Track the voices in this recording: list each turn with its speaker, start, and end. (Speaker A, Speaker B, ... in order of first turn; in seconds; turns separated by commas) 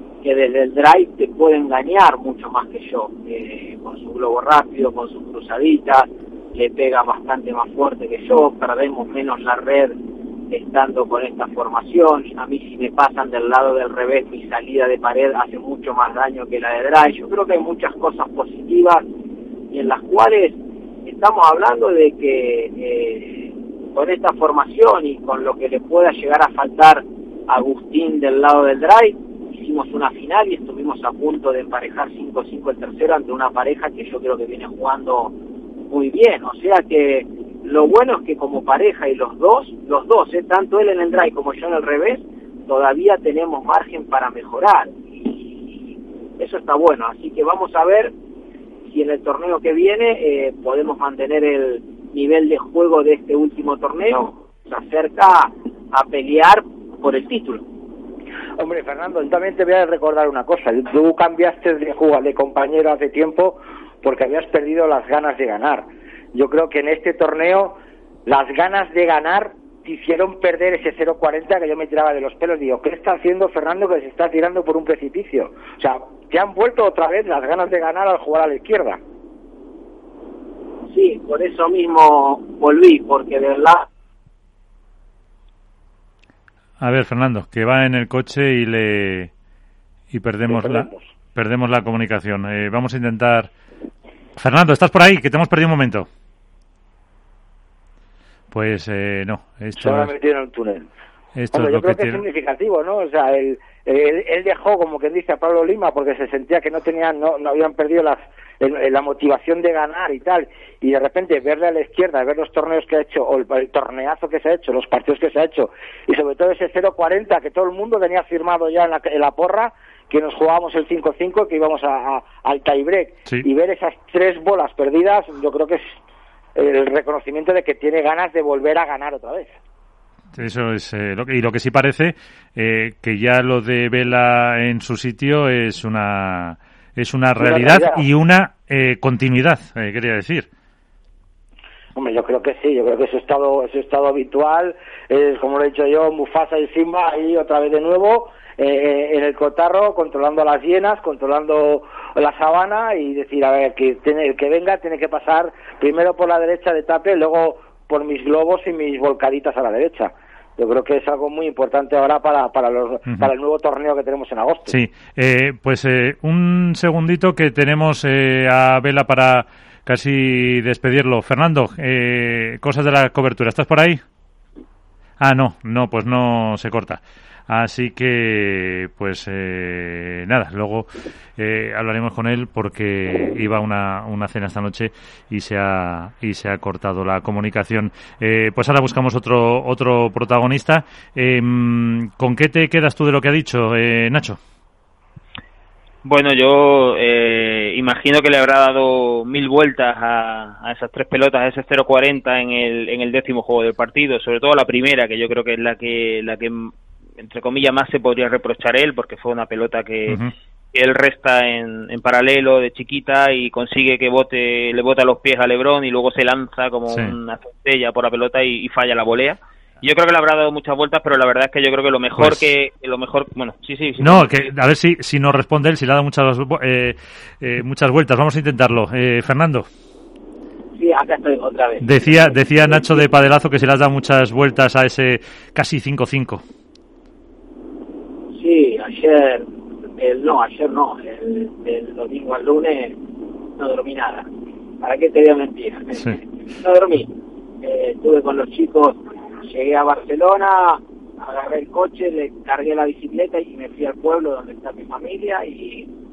Speaker A: 0.2-9.9, Speaker A: 10.5-19.0, Speaker A: 19.7-35.3, Speaker A: 35.9-48.1, Speaker A: 48.8-57.6, Speaker B: 58.6-67.7, Speaker B: 68.2-79.0, Speaker A: 80.9-83.8, Speaker C: 86.8-89.3, Speaker C: 90.1-93.5, Speaker B: 90.5-91.0, Speaker C: 94.3-96.1, Speaker C: 98.5-100.1, Speaker B: 99.8-100.9, Speaker C: 101.3-102.2, Speaker B: 101.5-126.0, Speaker B: 126.5-129.6, Speaker C: 130.3-140.5, Speaker B: 137.4-138.0, Speaker B: 141.9-164.8, Speaker C: 164.7-174.0, Speaker C: 175.2-194.4, Speaker D: 196.0-224.5, Speaker C: 222.2-222.5, Speaker C: 224.0-229.7, Speaker A: 230.8-232.9, Speaker C: 231.8-236.4, Speaker A: 238.3-239.4, Speaker A: 240.0-243.0, Speaker A: 243.6-244.3, Speaker A: 244.8-255.9